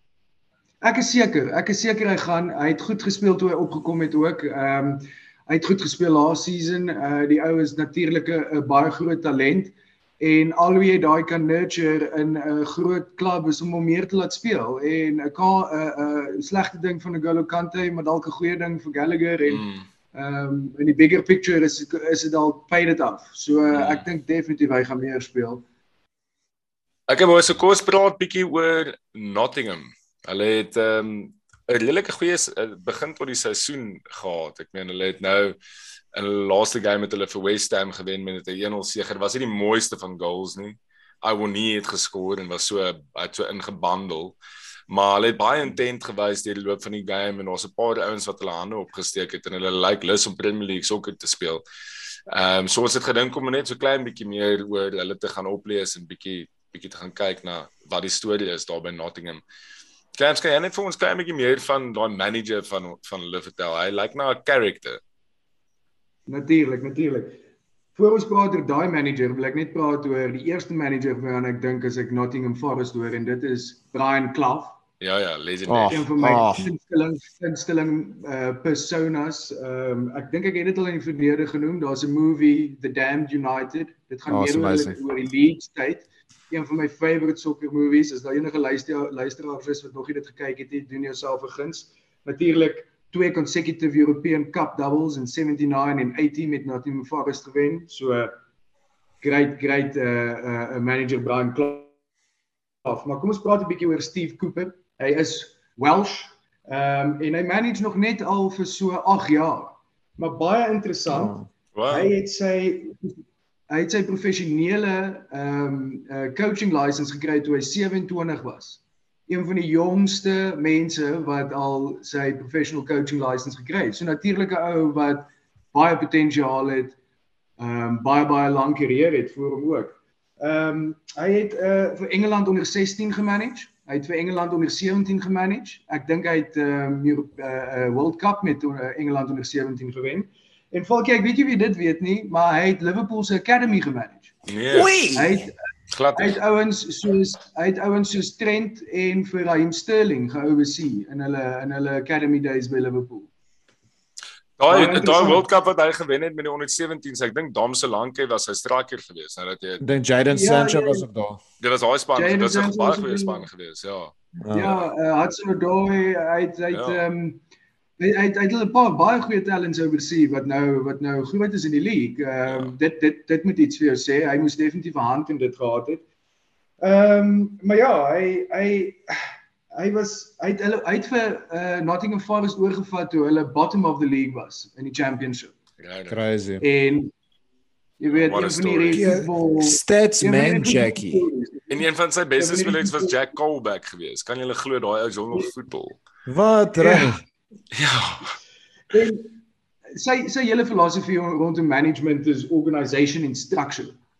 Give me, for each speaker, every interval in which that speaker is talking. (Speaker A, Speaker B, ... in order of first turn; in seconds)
Speaker A: 0.8-25.6, 66.3-67.4, 67.9-74.8, 75.9-98.3, 99.2-101.9, 102.8-111.3, 111.9-113.1, 113.7-127.0, 127.6-145.5, 146.1-153.3, 154.7-155.4, 160.3-161.0, 162.2-163.5, 164.5-167.4, 168.0-176.0, 176.8-179.0, 179.7-185.5, 186.6-187.1, 188.0-191.9, 192.4-193.2, 196.8-197.1, 198.9-199.4, 199.9-204.0
Speaker B: 19.4-19.8, 23.7-24.1, 27.1-35.5, 36.1-44.4, 44.9-51.6, 52.3-59.4, 60.1-65.0, 75.0-76.1, 111.7-112.1, 144.4-145.2, 145.9-146.4, 154.6-159.8, 161.6-164.9, 166.7-167.0, 172.5-172.7, 185.8-186.2, 188.1-189.0, 191.7-196.0, 197.7-198.3
Speaker C: 75.7-76.7, 84.3-85.0, 111.1-111.5, 144.7-145.3, 159.8-161.4, 164.4-164.7, 186.1-186.6, 188.9-191.2, 196.2-197.2